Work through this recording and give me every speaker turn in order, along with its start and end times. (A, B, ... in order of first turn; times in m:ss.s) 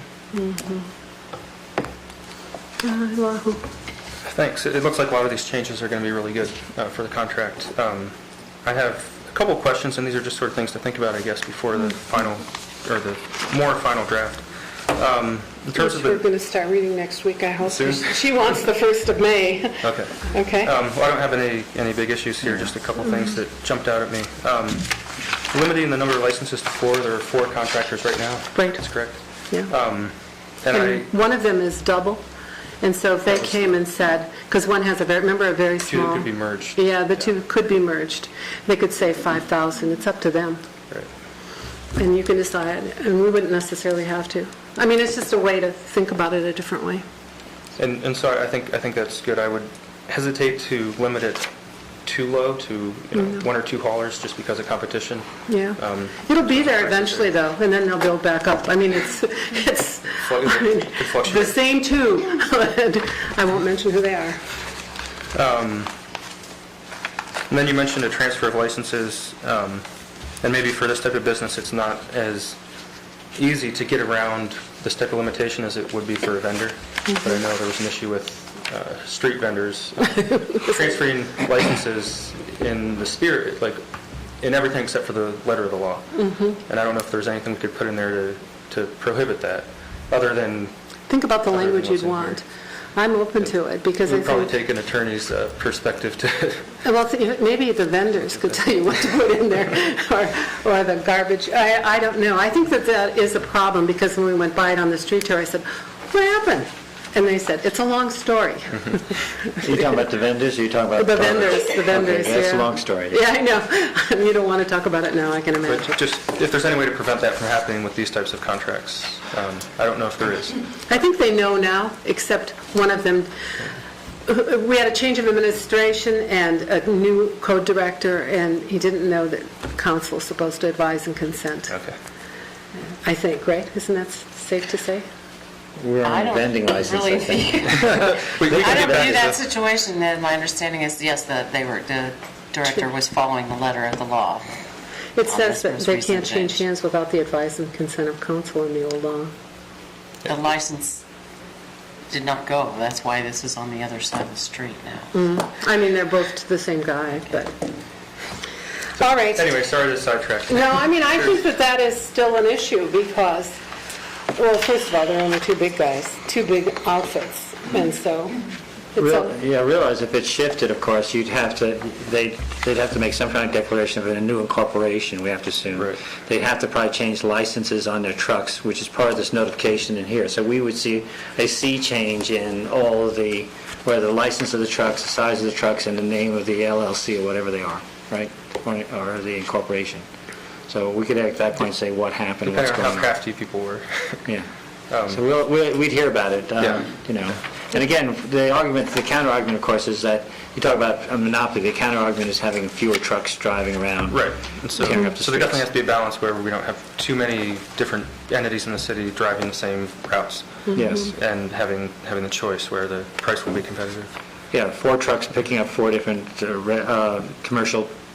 0:00.3-0:00.9 A
0:02.8-0:03.6 A
0:04.3-0:16.2 B
0:15.8-0:20.7 A
0:17.6-0:18.1 B
0:19.8-0:31.1 B
0:28.6-0:29.7 A
0:30.7-0:32.2 A
0:32.8-0:40.6 A
0:33.4-0:33.7 B
0:35.9-0:37.3 B
0:42.0-0:47.0 A
0:47.8-0:51.5 B
0:52.0-0:57.3 B
0:53.2-0:53.4 A
0:55.5-1:04.4 A
1:00.2-1:01.6 B
1:05.3-1:05.9 B
1:07.5-1:09.8 B
1:10.4-1:12.6 B
1:13.4-1:23.8 B
1:24.4-1:30.7 B
1:26.2-1:26.6 A
1:31.1-1:32.4 A
1:31.5-1:32.4 B
1:33.0-1:34.5 A
1:34.0-1:36.8 B
1:36.8-1:49.6 A
1:49.6-1:53.2 C
1:51.0-1:56.0 A
1:55.7-2:00.6 B
2:00.9-2:03.3 A
2:04.3-2:11.8 A
2:11.7-2:12.0 B
2:13.0-2:15.1 A
2:15.8-2:18.0 C
2:16.0-2:24.6 D
2:18.1-2:19.4 B
2:18.6-2:19.1 C
2:25.2-2:29.3 A
2:25.2-2:26.6 D
2:30.2-2:31.0 D
2:32.1-2:35.1 D
2:35.1-2:37.5 A
2:39.0-2:39.5 A
2:39.0-2:41.4 B
2:40.5-2:43.6 A
2:44.3-2:48.4 A
2:49.0-2:49.3 A
2:49.0-3:10.1 C
3:10.7-3:13.1 C
3:12.5-3:14.2 B
3:14.9-3:15.2 B
3:15.1-3:25.6 C
3:16.6-3:17.0 B
3:24.1-3:34.1 B
3:30.8-3:31.1 C
3:34.5-3:37.9 C